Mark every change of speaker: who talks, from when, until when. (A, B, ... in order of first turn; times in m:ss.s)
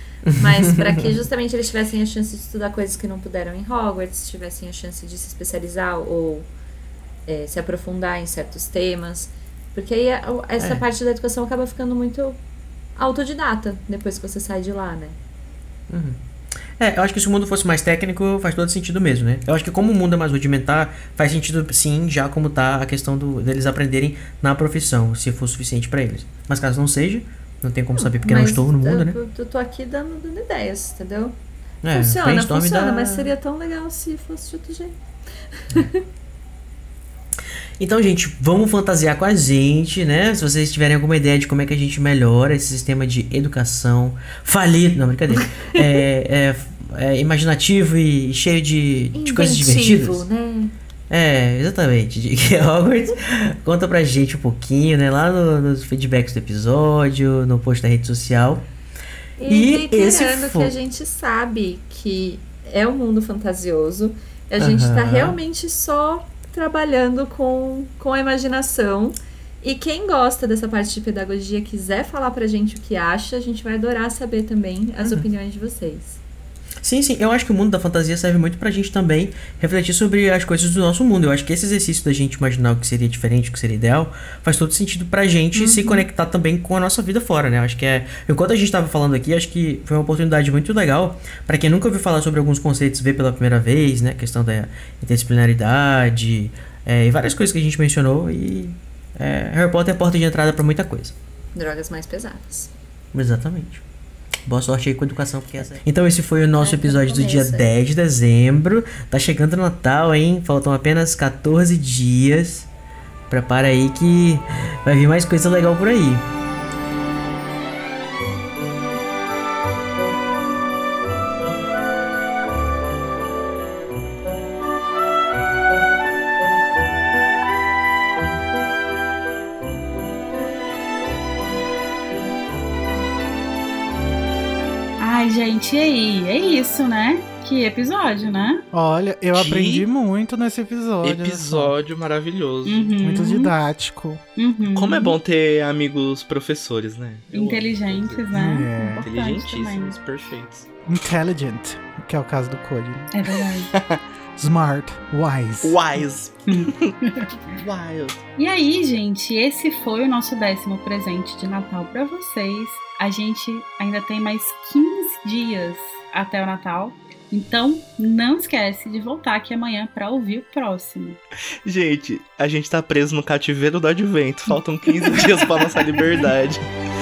0:00.2-0:01.1 A
0:00.3-0:06.5 B
0:07.3-0:12.4 B
0:13.0-0:15.2 B
0:15.9-0:16.2 A
0:16.8-0:29.2 A
0:28.0-0:31.3 B
0:31.8-0:33.3 A
0:31.9-0:34.9 B
0:35.6-0:36.0 B
0:37.8-0:50.2 A
0:45.3-0:45.9 B
0:49.1-0:50.7 B
0:51.1-0:58.6 A
0:59.4-1:16.2 B
0:59.5-1:00.7 A
1:04.6-1:05.4 A
1:16.8-1:41.1 A
1:25.5-1:26.0 B
1:41.5-1:42.7 B
1:43.1-1:43.8 A
1:44.4-1:52.7 A
1:46.6-1:47.7 B
1:53.3-1:56.2 A
2:15.0-2:18.6 C
2:18.7-2:21.8 D
2:19.3-2:19.9 E
2:21.0-2:23.2 E
2:22.6-2:23.5 C
2:23.0-2:24.2 D
2:24.4-2:25.2 C
2:24.7-2:30.7 E
2:27.3-2:30.0 C
2:28.3-2:29.1 D
2:30.8-2:33.1 D
2:33.1-2:33.7 C
2:33.7-2:35.8 D
2:35.6-2:36.9 E
2:37.5-2:38.2 E
2:38.4-2:51.2 C
2:51.6-2:56.6 E